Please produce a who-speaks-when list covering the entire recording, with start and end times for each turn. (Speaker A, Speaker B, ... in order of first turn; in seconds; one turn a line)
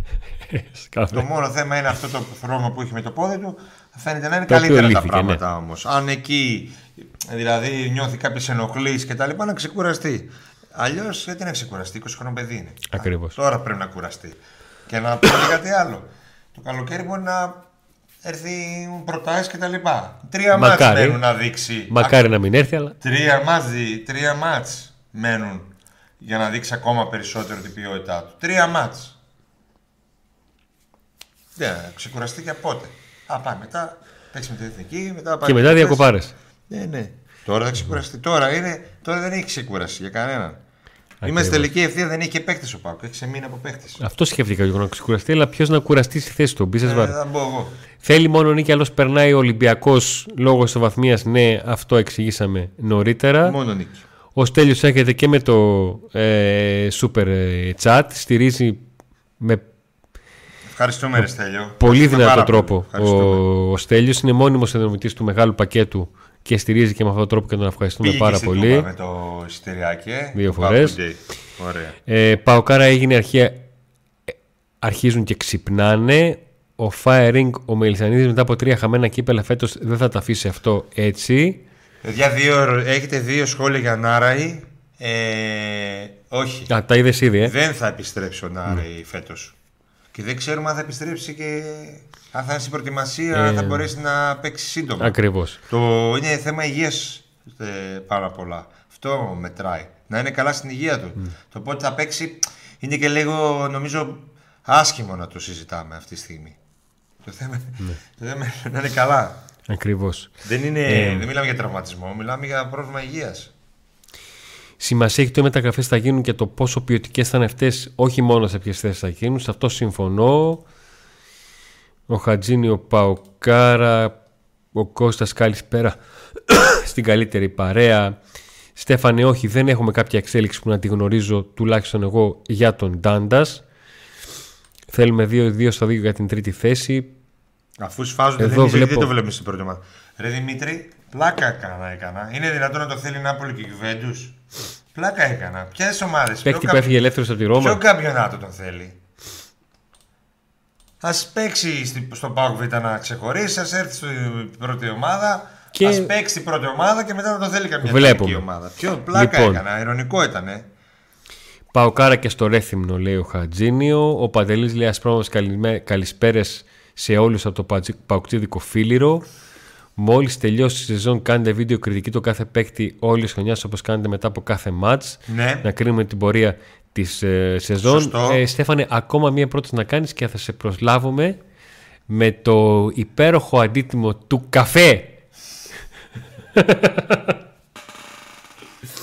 Speaker A: 0.5-1.2
Speaker B: 1.1-17.6
Speaker A: 4.5-5.4
Speaker A: 12.9-13.3
Speaker B: 18.2-22.2
Speaker A: 20.5-21.2
Speaker A: 21.9-22.9
Speaker B: 23.0-29.2
Speaker B: 31.6-36.1
Speaker A: 35.4-36.3
Speaker B: 36.7-40.6
Speaker A: 41.2-41.7
Speaker B: 41.2-44.0
Speaker A: 44.0-47.1
Speaker B: 46.8-47.7
Speaker A: 48.0-53.6
Speaker B: 53.4-54.0
Speaker A: 54.3-58.8
Speaker A: 59.4-59.6
Speaker B: 60.7-63.4
Speaker A: 61.8-68.9
Speaker B: 68.0-72.0
Speaker A: 70.3-71.0
Speaker A: 72.0-73.7
Speaker A: 74.8-81.6
Speaker B: 82.0-86.7
Speaker A: 86.7-87.5
Speaker B: 87.4-89.5
Speaker B: 90.1-95.2
Speaker A: 93.3-93.9
Speaker A: 95.0-95.6
Speaker B: 95.7-106.6
Speaker B: 107.2-109.4
Speaker A: 109.7-111.3
Speaker B: 110.4-113.5
Speaker A: 114.8-120.6
Speaker A: 122.1-124.2
Speaker A: 124.7-128.2
Speaker A: 128.8-133.6
Speaker A: 134.9-137.1
Speaker B: 137.8-144.4
Speaker A: 138.4-139.1
Speaker B: 144.9-146.9
Speaker A: 146.4-147.8
Speaker B: 147.6-149.0
Speaker B: 151.0-160.7
Speaker A: 155.7-156.1
Speaker A: 157.8-158.4
Speaker A: 159.1-159.6
Speaker A: 161.7-169.2
Speaker A: 170.0-181.4
Speaker B: 175.3-175.7
Speaker B: 177.8-178.4
Speaker A: 182.1-185.2
Speaker A: 186.5-187.4